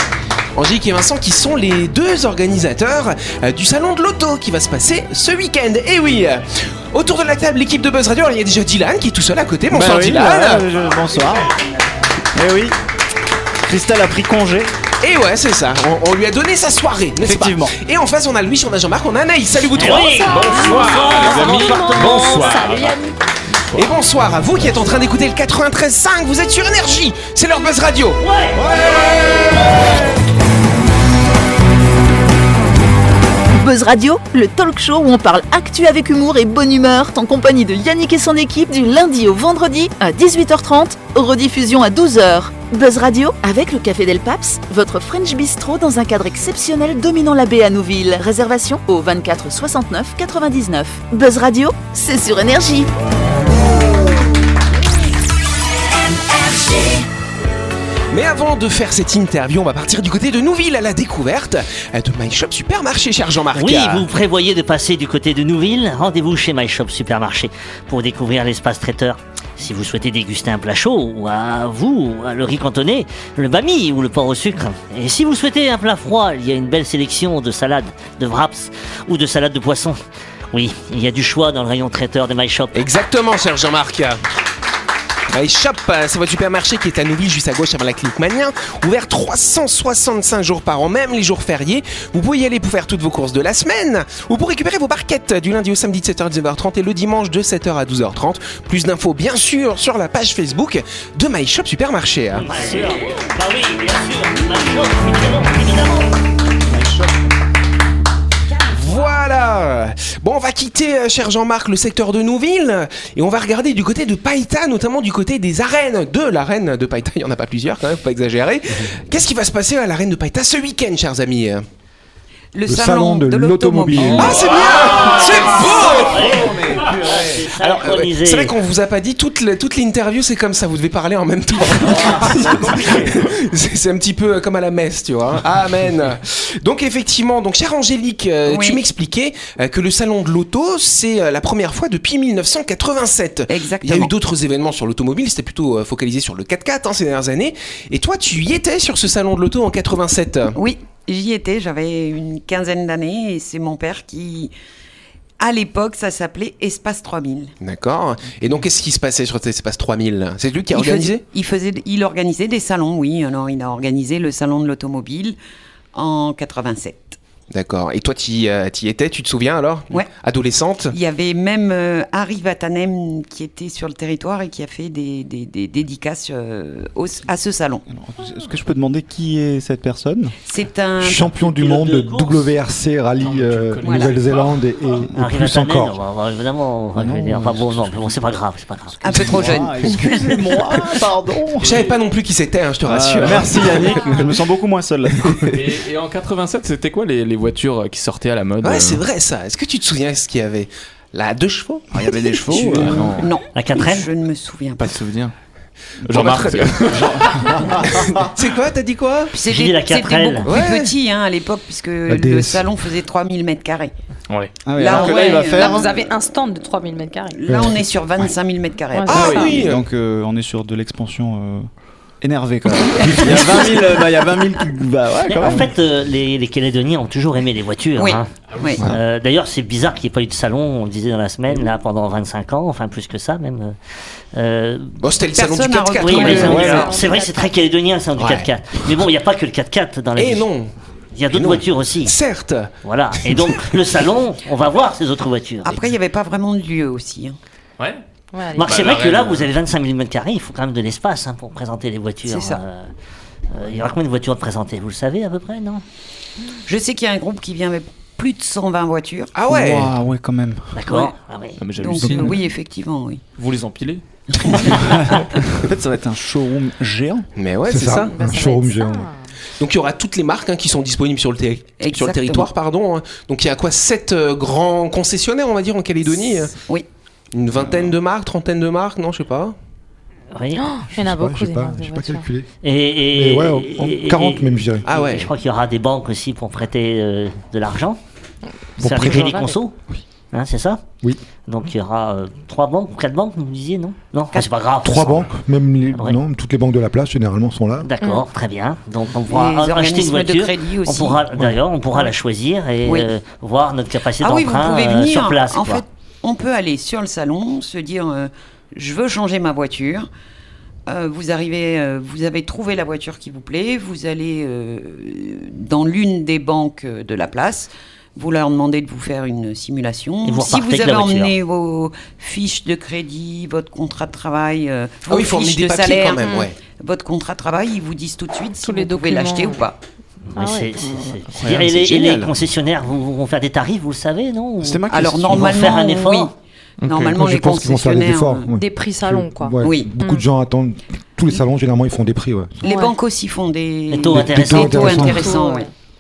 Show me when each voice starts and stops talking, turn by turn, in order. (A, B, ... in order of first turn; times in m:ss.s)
0:00.6-0:10.7 A
0:09.7-0:11.5 B
0:12.3-0:12.8 B
0:13.6-0:14.7 B
0:15.0-0:20.2 A
0:17.2-0:17.8 B
0:19.7-0:22.7 C
0:19.8-0:23.1 D
0:20.3-0:23.0 E
0:23.8-0:28.2 A
0:28.2-0:28.7 C
0:28.9-0:29.4 A
0:33.5-0:52.9 F
0:58.1-1:04.0 A
1:03.5-1:20.0 C
1:20.5-1:22.8 C
1:22.8-1:24.2 A
1:25.3-1:42.5 A
1:42.4-1:46.2 C
1:42.6-1:43.0 B
1:46.7-1:47.1 B
1:48.6-1:49.2 D
1:48.7-2:01.6 A
2:02.5-2:04.4 G
2:02.7-2:04.4 H
2:04.2-2:30.6 A
2:04.7-2:08.5 C
2:18.5-2:18.8 G
2:23.5-2:24.1 G
2:30.6-2:34.5 G
2:35.4-2:37.5 G
2:37.6-2:41.2 A
2:40.7-2:45.4 G
2:45.9-2:47.2 G
2:47.5-2:50.9 A
2:50.9-2:57.8 G
2:57.9-3:00.4 B
3:00.5-3:01.4 G
3:01.0-3:06.0 H
3:01.4-3:02.5 C
3:03.2-3:04.7 E
3:03.8-3:04.2 G
3:05.2-3:09.4 C
3:07.0-3:08.1 B
3:09.0-3:10.1 G
3:09.1-3:11.9 B
3:11.6-3:14.4 A
3:12.8-3:15.7 B
3:15.5-3:19.0 E
3:18.6-3:21.9 A
3:21.9-3:23.3 B
3:22.4-3:25.0 G
3:23.6-3:24.0 C
3:24.8-3:25.3 E
3:26.1-3:27.7 E
3:26.1-3:26.8 A
3:26.9-3:28.2 B
3:27.9-3:29.3 A
3:29.3-3:33.9 G
3:29.5-3:30.5 C
3:30.5-3:30.9 A
3:32.1-3:32.7 H
3:34.3-3:34.5 E
3:34.6-3:36.0 B
3:34.8-3:36.0 G
3:34.8-3:37.4 D
3:37.3-3:39.3 G
3:37.5-3:37.8 H
3:38.9-3:39.6 D
3:39.1-3:39.8 A
3:39.1-3:39.5 E
3:39.5-3:45.7 B
3:43.0-3:43.8 G
3:45.3-3:48.3 C
3:48.0-3:48.8 G
3:48.5-3:48.8 E
3:48.8-3:53.8 C
3:54.3-3:55.0 C
3:55.0-3:56.9 A
3:55.3-3:57.0 G
3:56.0-4:00.5 C
3:56.1-3:57.6 D
3:56.4-3:56.9 B
3:58.2-3:58.5 A
4:00.2-4:00.7 A
4:01.1-4:02.2 C
4:01.3-4:03.8 A
4:02.8-4:05.8 C
4:05.6-4:07.4 G
4:08.3-4:08.8 D
4:08.6-4:12.9 C
4:08.6-4:09.5 E
4:12.2-4:12.6 G
4:13.5-4:15.8 C
4:16.7-4:19.4 G
4:19.4-4:19.9 A
4:19.5-4:20.8 B
4:20.8-4:21.6 C
4:20.9-4:21.1 G
4:21.6-4:22.4 E
4:21.8-4:23.2 G
4:23.4-4:24.8 E
4:25.0-4:27.3 B
4:27.4-4:28.2 A
4:27.7-4:29.1 H
4:28.1-4:29.2 D
4:29.6-4:36.6 A
4:31.8-4:32.5 G
4:36.6-4:36.8 G
4:37.3-4:39.6 A
4:40.3-4:40.8 C
4:40.6-4:42.3 D
4:40.9-4:42.5 H
4:42.6-4:48.0 C
4:43.1-4:44.9 H
4:44.8-4:45.3 A
4:48.8-4:49.4 H
4:48.8-4:49.8 C
4:49.1-4:49.5 D
4:50.3-4:50.8 C
4:51.5-4:55.3 C
4:54.8-4:57.9 H
4:57.8-5:05.8 C
4:59.3-5:01.2 G
5:02.8-5:03.1 G
5:04.2-5:10.1 G
5:10.9-5:29.8 G
5:20.3-5:21.3 C
5:25.1-5:26.6 A
5:26.2-5:26.5 D
5:28.6-5:29.6 D
5:30.3-5:36.3 C
5:30.4-5:30.8 D
5:31.3-5:32.3 E
5:31.9-5:32.3 A
5:34.6-5:35.8 B
5:34.9-5:36.3 G
5:36.8-5:37.2 E
5:36.8-5:38.5 G
5:37.0-5:42.6 H
5:38.5-5:40.3 D
5:39.6-5:39.9 G
5:42.6-5:43.0 D
5:42.6-5:45.7 G
5:43.9-5:45.1 C
5:44.1-5:45.4 H
5:44.8-5:45.7 D